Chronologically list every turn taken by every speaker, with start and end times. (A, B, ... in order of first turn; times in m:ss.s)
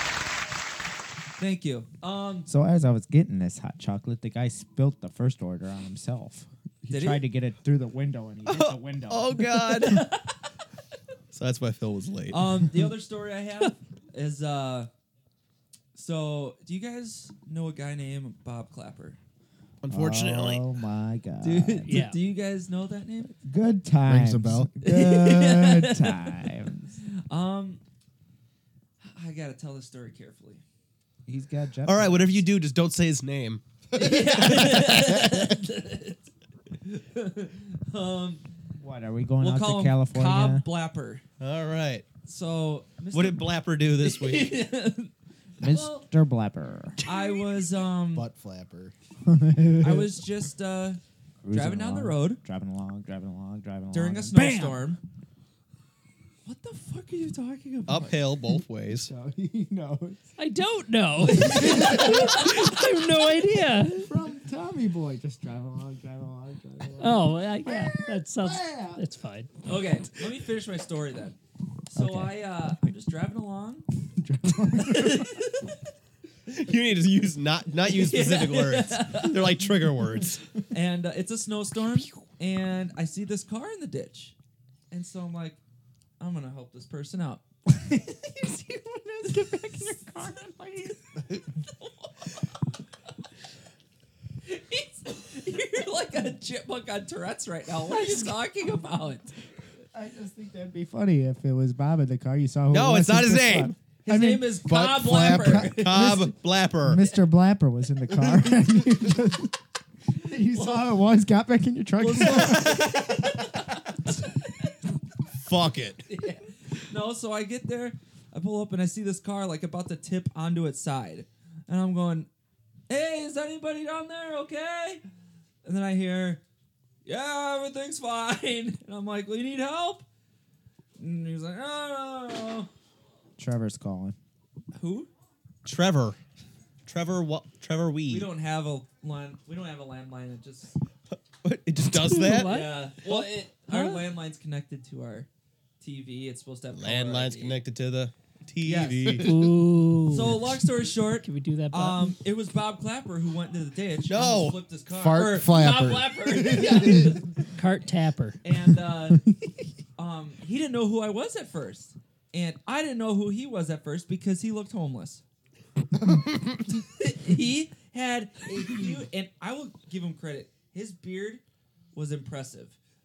0:01.4-0:02.5 A
0:02.5-0:09.6 B
0:06.9-0:07.2 A
0:08.5-0:10.1 C
0:09.7-0:10.3 A
0:11.3-0:12.4 C
0:12.3-0:14.9 A
0:16.0-0:19.2 A
0:19.8-0:20.6 C
0:19.9-0:21.9 B
0:21.4-0:23.4 A
0:21.9-0:22.2 D
0:23.4-0:27.0 B
0:24.1-0:24.7 E
0:24.8-0:26.4 A
0:27.3-0:27.8 A
0:29.0-0:30.6 A
0:31.3-0:32.4 B
0:31.8-0:35.3 C
0:33.9-0:36.3 A
0:36.8-0:38.5 A
0:38.8-0:40.6 B
0:39.4-0:41.2 A
0:41.4-0:42.1 C
0:42.2-0:45.1 A
0:43.1-0:44.5 C
0:45.6-0:47.0 B
0:45.6-0:46.1 A
0:47.0-0:48.3 A
0:48.1-0:48.9 E
0:49.2-0:50.2 B
0:49.8-0:51.0 A
0:51.4-0:54.9 B
0:51.5-0:52.4 A
0:53.9-0:55.0 A
0:56.5-0:58.3 A
0:57.9-0:59.1 C
0:58.9-1:00.3 B
1:00.4-1:04.1 D
1:01.3-1:02.9 B
1:01.3-1:02.4 A
1:03.9-1:09.0 B
1:07.0-1:09.5 D
1:09.6-1:11.4 A
1:11.9-1:13.9 A
1:12.0-1:12.4 B
1:14.2-1:15.4 B
1:14.8-1:15.7 A
1:16.5-1:20.4 C
1:17.9-1:19.5 A
1:20.7-1:24.3 A
1:24.9-1:25.6 A
1:26.2-1:27.4 A
1:27.7-1:31.2 B
1:31.8-1:32.4 A
1:34.5-1:39.3 A
1:37.9-1:38.4 D
1:39.9-1:44.6 B
1:42.7-1:43.7 C
1:44.0-1:46.1 A
1:44.6-1:45.7 E
1:45.2-1:49.6 B
1:45.7-1:47.1 C
1:50.2-1:53.4 B
1:50.3-1:50.9 A
1:52.0-1:54.7 A
1:55.4-1:56.1 C
1:56.1-2:02.3 A
2:02.9-2:05.0 A
2:05.6-2:06.4 A
2:07.0-2:10.0 A
2:11.0-2:12.7 A
2:13.4-2:14.2 B
2:14.8-2:15.1 A
2:15.6-2:16.2 C
2:16.9-2:18.3 C
2:18.1-2:20.7 A
2:21.1-2:22.6 C
2:21.9-2:24.1 D
2:22.4-2:25.3 A
2:25.8-2:27.6 A
2:26.7-2:29.3 C
2:28.6-2:29.2 A
2:29.2-2:32.2 D
2:30.1-2:37.3 A
2:34.1-2:34.6 C
2:34.9-2:37.2 E
2:37.5-2:38.4 D
2:38.4-2:39.2 A
2:40.0-2:45.2 A
2:46.1-2:46.5 E
2:47.0-2:51.4 A
2:51.9-2:52.8 A